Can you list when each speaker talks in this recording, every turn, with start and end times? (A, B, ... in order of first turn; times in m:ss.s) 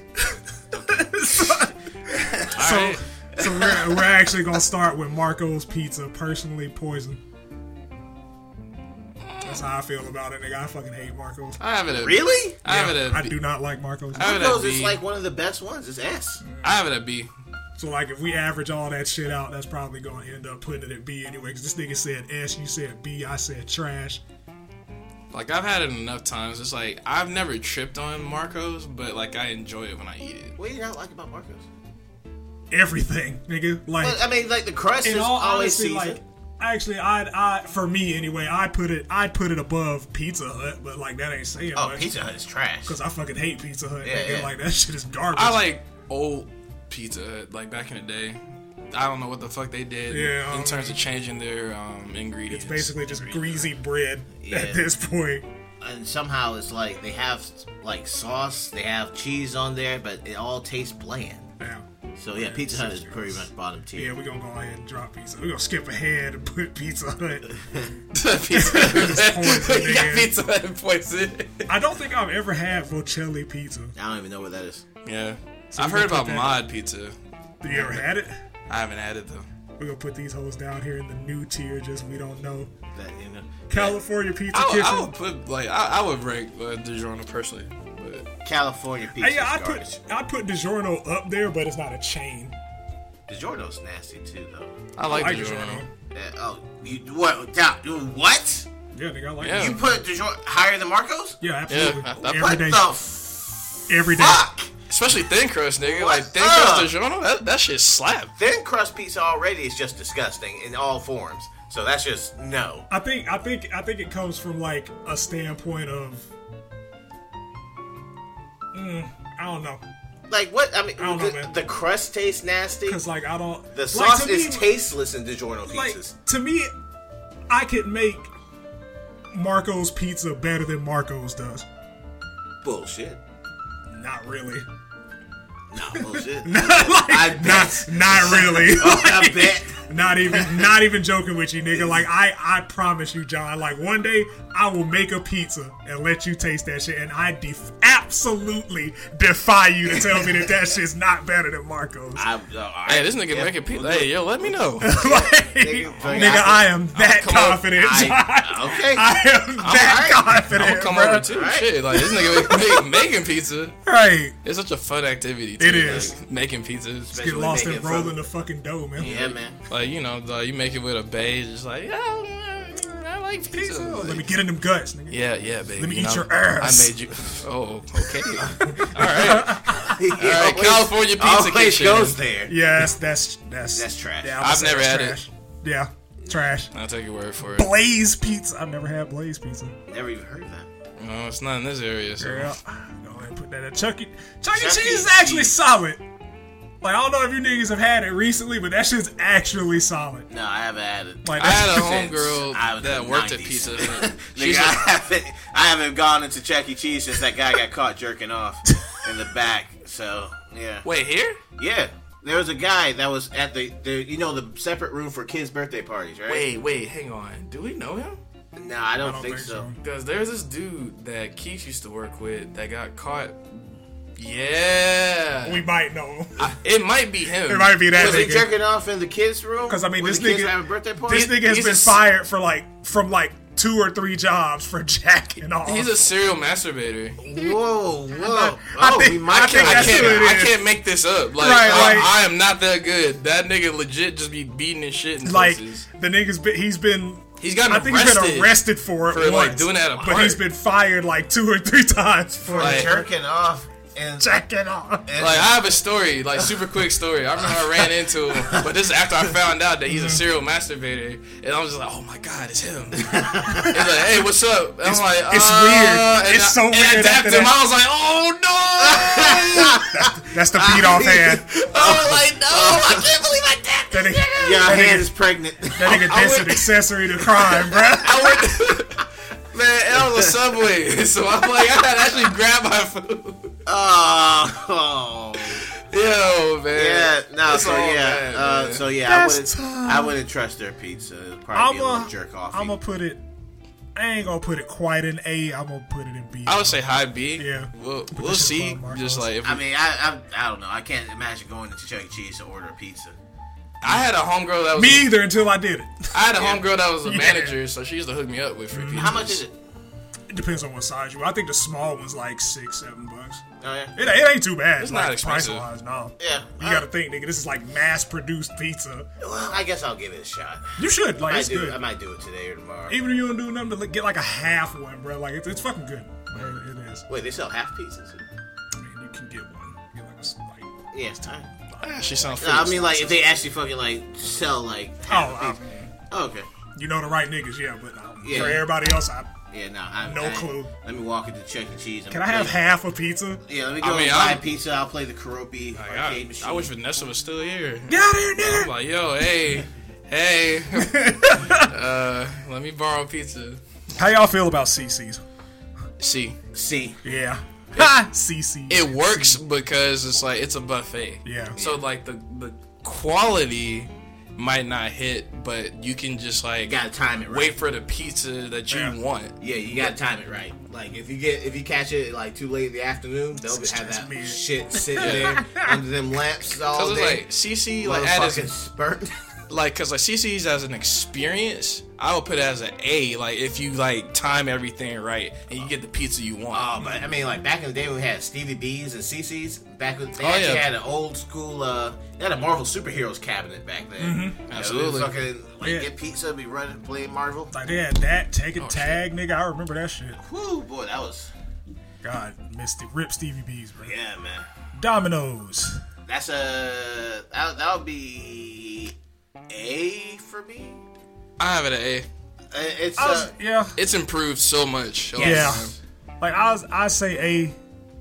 0:00.2-0:07.2 A
0:02.1-0:02.6 B
0:02.5-0:03.0 C
0:03.4-0:04.1 B
0:09.2-0:09.6 C
0:09.4-0:11.6 A
0:11.6-0:13.3 C
0:12.0-0:12.6 B
0:12.6-0:14.4 A
0:14.1-0:15.0 C
0:14.2-0:16.4 B
0:16.4-0:16.8 A
0:16.6-0:17.3 C
0:17.8-0:24.2 A
0:25.3-0:30.6 C
0:30.6-0:31.7 B
0:32.7-0:34.2 A
0:34.0-0:36.2 B
0:35.0-0:42.1 A
0:41.7-0:43.0 B
0:42.9-0:45.6 A
0:44.0-0:44.5 B
0:45.3-0:48.4 C
0:48.9-0:53.2 C
0:50.1-0:51.0 A
0:52.5-0:55.4 A
0:53.3-0:53.7 B
0:54.4-0:54.9 B
0:55.8-1:01.5 B
1:01.6-1:03.4 A
1:02.2-1:04.1 B
1:04.0-1:07.6 A
1:08.1-1:11.7 C
1:08.5-1:10.3 A
1:11.7-1:13.9 A
1:13.9-1:14.8 B
1:15.1-1:17.1 C
1:15.7-1:16.6 A
1:17.6-1:18.3 A
1:17.7-1:18.0 C
1:18.7-1:19.4 C
1:19.8-1:22.7 A
1:22.9-1:24.0 B
1:23.7-1:25.1 A
1:24.5-1:28.3 C
1:28.4-1:30.0 B
1:29.2-1:32.6 A
1:33.3-1:34.7 B
1:35.0-1:35.8 C
1:35.1-1:35.9 A
1:36.1-1:38.7 B
1:38.9-1:39.8 A
1:39.4-1:39.8 C
1:39.5-1:41.4 B
1:41.4-1:42.9 A
1:41.7-1:42.6 C
1:42.2-1:44.7 B
1:43.9-1:44.4 A
1:44.9-1:48.3 C
1:45.8-1:46.9 B
1:48.4-1:52.9 B
1:52.9-1:56.3 A
1:58.7-1:59.8 A
2:00.3-2:03.0 B
2:01.0-2:01.5 A
2:02.9-2:04.7 A
2:03.7-2:06.1 B
2:05.7-2:06.7 A
2:07.5-2:08.3 A
2:09.3-2:11.6 A
2:12.6-2:13.2 B
2:13.9-2:14.6 A
2:15.7-2:20.7 B
2:16.1-2:32.3 A
2:32.2-2:36.7 B
2:32.9-2:34.9 C
2:34.8-2:41.3 A
2:36.0-2:37.7 C
2:37.7-2:40.3 B
2:39.6-2:43.8 C
2:41.3-2:41.7 B
2:41.9-2:43.0 A
2:43.9-2:44.4 A
2:44.4-2:47.2 C
2:45.6-2:46.1 A
2:47.1-2:48.2 B
2:47.1-2:49.1 A
2:49.0-2:54.2 C
2:49.0-2:49.6 B
2:53.5-2:55.2 A
2:55.1-3:02.2 C
2:55.8-2:56.9 A
2:58.4-2:59.8 A
2:58.5-2:58.9 B
2:59.6-3:02.6 B
3:02.5-3:06.7 A
3:03.7-3:04.4 B
3:04.4-3:05.2 C
3:06.2-3:06.5 B
3:06.7-3:07.7 C
3:07.4-3:09.8 A
3:09.9-3:10.7 B
3:11.0-3:12.5 C
3:12.2-3:16.0 A
3:14.5-3:15.6 B
3:16.8-3:20.3 A
3:20.3-3:30.9 B
3:21.2-3:21.8 A
3:21.4-3:24.9 C
3:30.8-3:31.4 C
3:31.6-3:36.4 B
3:36.3-3:38.2 C
3:38.6-3:39.7 B
3:39.0-3:39.8 A
3:39.8-3:45.6 C
3:45.4-3:46.4 A
3:46.4-3:47.8 C
3:47.5-3:48.5 A
3:47.9-3:51.4 B
3:49.7-3:55.9 A
3:51.1-3:52.0 C
3:55.6-3:57.2 C
3:57.2-4:00.3 B
3:58.2-4:00.6 A
3:59.5-4:05.9 C
4:01.4-4:02.1 A
4:01.6-4:02.1 B
4:05.2-4:13.1 A
4:07.4-4:10.4 C
4:12.4-4:14.4 B
4:12.6-4:12.9 C
4:14.2-4:15.1 A
4:15.0-4:15.6 B
4:15.2-4:29.8 C
4:17.5-4:17.8 B
4:19.9-4:20.2 A
4:23.0-4:24.0 B
4:24.8-4:27.6 A
4:28.8-4:33.1 B
4:29.8-4:31.4 A
4:31.5-4:34.7 C
4:33.9-4:35.1 A
4:34.3-4:36.2 B
4:35.7-4:38.2 A
4:35.8-4:36.7 C
4:37.5-4:43.5 C
4:39.9-4:40.4 B
4:43.6-4:45.6 B
4:45.8-4:48.8 C
4:46.7-4:52.8 B
4:49.0-4:50.2 A
4:51.5-4:53.2 A
4:54.0-4:56.8 A
4:56.5-4:59.6 C
4:57.4-4:59.3 A
4:59.4-5:03.2 B
5:03.8-5:05.2 C
5:04.7-5:06.2 A
5:06.1-5:09.4 C
5:06.3-5:06.6 B
5:07.0-5:07.6 A
5:08.7-5:09.2 A
5:08.9-5:09.6 B
5:10.3-5:13.4 A
5:13.6-5:13.9 B
5:13.9-5:19.1 A
5:14.8-5:15.7 C
5:16.2-5:16.9 B
5:19.2-5:23.0 B
5:20.8-5:21.8 A
5:22.9-5:27.1 A
5:27.1-5:28.2 B
5:28.8-5:30.7 A
5:30.9-5:31.5 B
5:31.7-5:32.0 A
5:31.8-5:33.2 C
5:32.3-5:36.5 B
5:35.1-5:35.9 A
5:36.8-5:39.3 A
5:38.2-5:38.7 B
5:38.3-5:38.6 C
5:39.5-5:42.6 B
5:40.0-5:40.7 A
5:42.1-5:43.4 A
5:43.4-5:46.7 B
5:43.8-5:44.4 C
5:45.8-5:53.6 C
5:47.9-5:48.7 A
5:50.8-5:51.7 A
5:54.0-5:55.2 A
5:56.0-5:56.4 C
5:56.5-5:57.0 B
5:57.0-5:59.4 A
5:58.7-6:09.9 C
6:01.2-6:01.6 A
6:01.6-6:01.8 B
6:06.6-6:07.6 B
6:08.7-6:09.0 A
6:09.4-6:17.2 B
6:13.4-6:15.8 A
6:15.0-6:15.4 C
6:16.7-6:18.5 C
6:17.8-6:19.1 B
6:19.5-6:26.7 C
6:26.5-6:37.5 B
6:30.2-6:30.7 C
6:34.0-6:34.4 A
6:34.5-6:35.1 C
6:35.6-6:35.9 A
6:37.5-6:40.2 A
6:38.6-6:39.0 C
6:40.2-6:41.3 B
6:42.0-6:43.9 A
6:43.8-6:44.5 B
6:44.7-6:45.8 A
6:46.1-6:48.9 B
6:49.5-6:50.8 B
6:51.4-6:52.1 C
6:52.5-6:53.3 B
6:53.0-6:53.8 A
6:53.8-6:55.7 C
6:55.1-6:55.8 B
6:55.2-6:55.6 A
6:56.2-6:57.6 A